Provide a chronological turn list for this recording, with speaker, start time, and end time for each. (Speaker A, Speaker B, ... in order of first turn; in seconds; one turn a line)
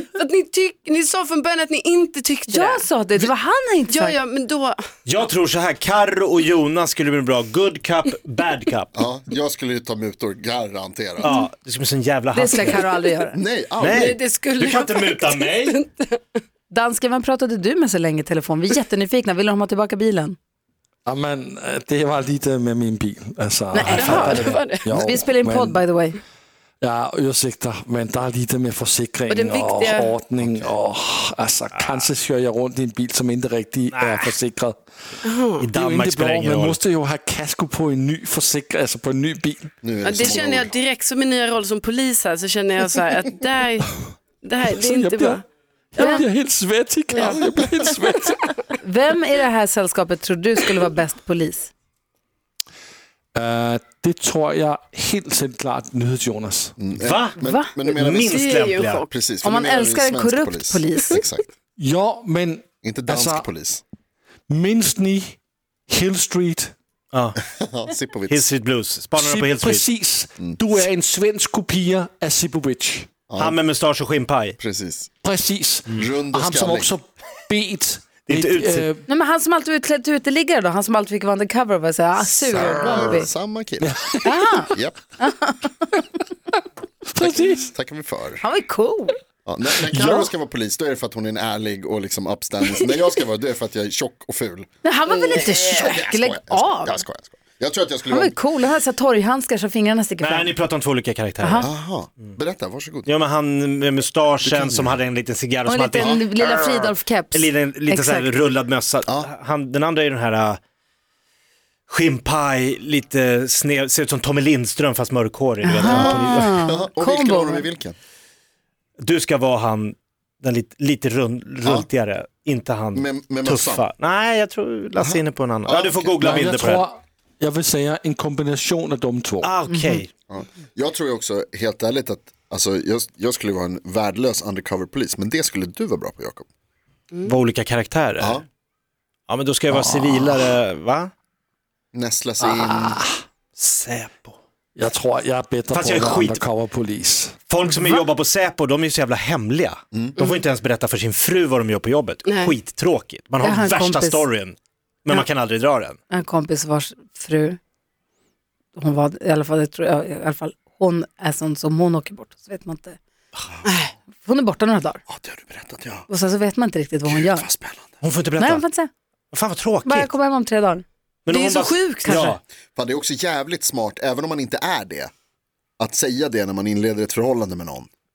Speaker A: 0.1-2.9
Speaker B: 2.5-4.2
Speaker A: 3.9-4.8
Speaker C: 5.0-8.9
Speaker D: 8.9-11.3
Speaker C: 11.2-12.8
Speaker B: 12.3-13.4
Speaker D: 13.3-14.2
Speaker C: 13.8-15.8
Speaker A: 13.8-16.4
Speaker B: 16.7-20.4
Speaker E: 21.1-25.8
Speaker B: 23.7-26.2
Speaker A: 23.9-25.0
Speaker E: 26.8-34.8
Speaker A: 29.3-30.2
Speaker D: 30.4-30.7
Speaker C: 31.8-32.1
Speaker C: 33.9-34.3
Speaker A: 35.2-35.7
Speaker C: 35.6-36.8
Speaker E: 35.7-39.7
Speaker D: 39.8-40.7
Speaker A: 40.0-45.4
Speaker E: 44.7-48.5
Speaker A: 46.0-46.3
Speaker B: 46.0-46.2
Speaker A: 47.1-47.5
Speaker A: 48.0-48.4
Speaker B: 48.8-51.7
Speaker E: 53.3-56.7
Speaker D: 56.8-58.4
Speaker C: 57.0-59.1
Speaker B: 57.4-57.7
Speaker A: 58.3-59.1
Speaker D: 59.1-61.5
Speaker B: 59.4-61.2
Speaker E: 61.8-63.5
Speaker D: 62.8-63.8
Speaker E: 64.5-66.7
Speaker C: 67.1-67.4
Speaker D: 67.5-68.5
Speaker C: 68.3-69.8
Speaker E: 69.2-73.1
Speaker D: 73.3-73.6
Speaker C: 73.4-74.6
Speaker D: 74.6-75.1
Speaker E: 75.2-79.0
Speaker D: 76.0-76.9
Speaker C: 78.2-78.8
Speaker B: 79.1-83.3
Speaker D: 82.3-83.9
Speaker E: 83.8-84.4
Speaker B: 84.2-86.0
Speaker D: 84.7-85.0
Speaker E: 87.1-87.7
Speaker D: 87.2-88.4
Speaker B: 88.4-89.2
Speaker D: 89.5-94.7
Speaker E: 89.9-90.3
Speaker B: 94.8-97.0
Speaker A: 95.1-95.9
Speaker D: 95.8-98.3
Speaker B: 98.1-100.5
Speaker C: 100.2-101.7
Speaker B: 101.4-101.7
Speaker D: 101.6-103.1
Speaker C: 103.0-110.6
Speaker D: 104.4-105.0
Speaker B: 105.7-108.3
Speaker D: 106.0-106.2
Speaker C: 111.9-116.6
Speaker B: 115.6-117.7
Speaker D: 115.8-118.0
Speaker C: 119.0-126.8
Speaker D: 122.9-123.8
Speaker D: 125.0-126.2
Speaker E: 126.2-129.5
Speaker C: 129.4-130.1
Speaker B: 129.7-130.0
Speaker D: 130.3-136.4
Speaker C: 137.2-138.4
Speaker D: 138.2-138.4
Speaker C: 139.3-141.1
Speaker E: 139.7-140.4
Speaker D: 141.9-143.0
Speaker E: 142.4-143.2
Speaker C: 143.6-144.4
Speaker E: 144.8-147.4
Speaker C: 145.7-146.4
Speaker C: 147.5-156.0
Speaker D: 149.9-150.2
Speaker A: 152.2-152.5
Speaker B: 153.4-154.3
Speaker B: 156.1-157.6
Speaker B: 158.7-163.0
Speaker A: 163.6-163.9
Speaker B: 164.2-165.0
Speaker D: 165.1-166.1
Speaker B: 166.1-167.5
Speaker D: 167.0-167.9
Speaker C: 168.0-168.6
Speaker B: 168.4-168.9
Speaker C: 169.3-170.1
Speaker B: 169.8-170.8
Speaker C: 171.2-172.4
Speaker A: 171.3-172.3
Speaker B: 172.0-172.4
Speaker D: 172.7-175.1
Speaker D: 175.8-177.9